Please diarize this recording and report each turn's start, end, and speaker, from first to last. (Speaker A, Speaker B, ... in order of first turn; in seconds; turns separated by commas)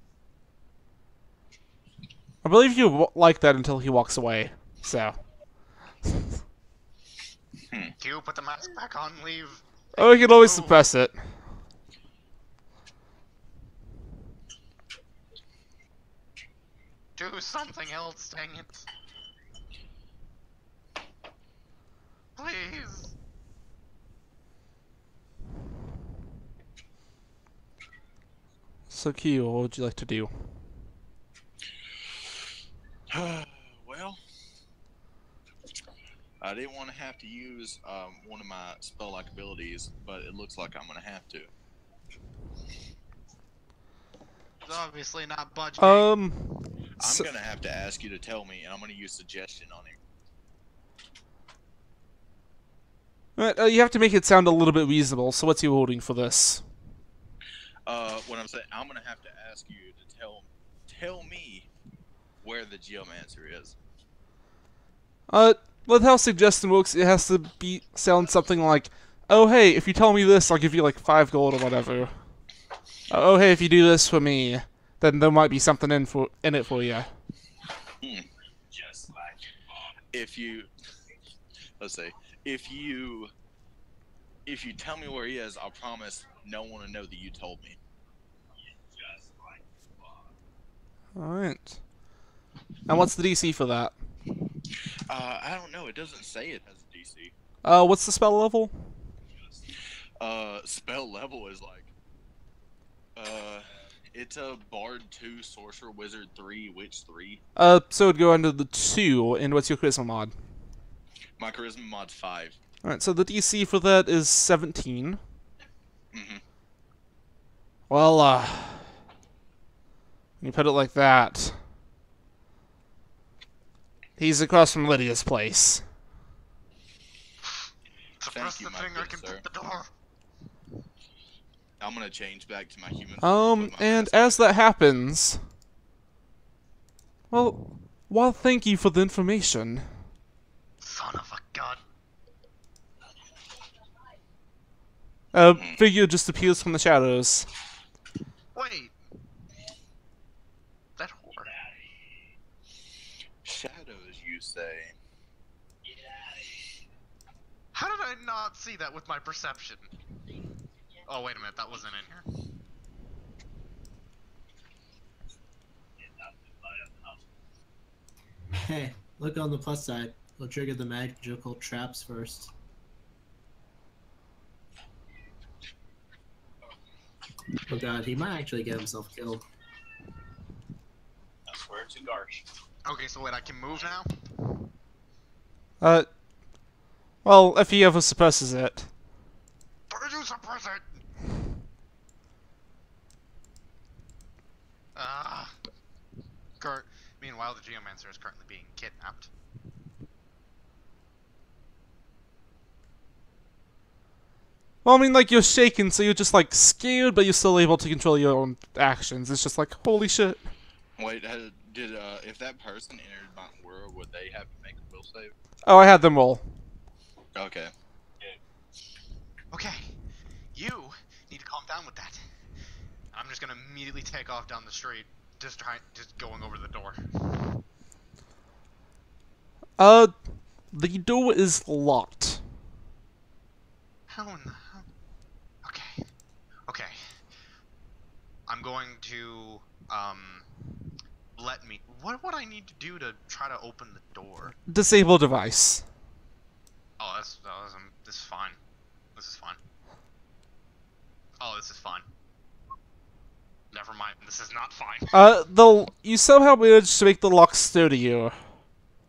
Speaker A: 2.4-5.2, Speaker B: 7.7-7.9, Speaker C: 8.0-10.9, Speaker A: 10.0-11.2, Speaker C: 17.2-18.9, Speaker C: 22.4-23.1, Speaker A: 28.9-30.3, Speaker B: 33.1-34.2, Speaker B: 36.4-41.5, Speaker C: 44.6-46.1, Speaker A: 45.8-47.3, Speaker B: 47.0-50.0, Speaker A: 53.4-56.6, Speaker B: 57.9-61.7, Speaker B: 62.4-63.8, Speaker A: 65.3-72.2, Speaker A: 73.1-77.1, Speaker B: 78.0-78.3, Speaker B: 80.1-80.7, Speaker B: 81.8-83.3, Speaker B: 84.5-87.8, Speaker A: 91.2-91.8, Speaker A: 92.9-93.9, Speaker B: 95.1-97.3, Speaker A: 97.6-98.7, Speaker B: 100.2-101.9, Speaker B: 103.2-107.4, Speaker A: 107.6-110.3, Speaker B: 111.4-112.6, Speaker A: 112.8-115.2, Speaker B: 116.1-116.4, Speaker A: 117.9-119.0, Speaker A: 120.4-121.6, Speaker A: 124.2-125.8, Speaker C: 128.2-129.9, Speaker B: 128.3-129.4, Speaker B: 131.8-134.4, Speaker A: 133.2-135.4, Speaker A: 137.3-139.9, Speaker C: 140.8-141.8, Speaker A: 145.3-147.5, Speaker C: 148.5-148.9, Speaker C: 151.0-151.6, Speaker B: 153.4-154.9, Speaker C: 157.7-159.9, Speaker C: 161.1-162.2, Speaker D: 168.6-172.5, Speaker D: 177.7-179.4, Speaker B: 181.5-182.4, Speaker C: 182.8-184.6, Speaker A: 185.8-186.1, Speaker A: 187.2-188.9, Speaker C: 189.9-190.9, Speaker C: 194.9-195.5, Speaker C: 196.6-199.3, Speaker A: 204.8-210.5, Speaker B: 211.0-215.3, Speaker A: 215.7-216.4, Speaker B: 217.3-217.7, Speaker C: 219.5-220.0, Speaker C: 220.5-222.2, Speaker C: 223.1-227.6, Speaker A: 229.8-230.2, Speaker A: 230.7-232.4, Speaker C: 234.1-234.9, Speaker C: 235.6-236.1, Speaker C: 236.7-237.1, Speaker C: 238.5-240.5, Speaker C: 241.4-244.6, Speaker A: 244.7-245.8, Speaker C: 247.0-248.6, Speaker C: 249.2-249.6, Speaker C: 251.4-252.1, Speaker C: 253.7-255.2, Speaker A: 255.1-258.4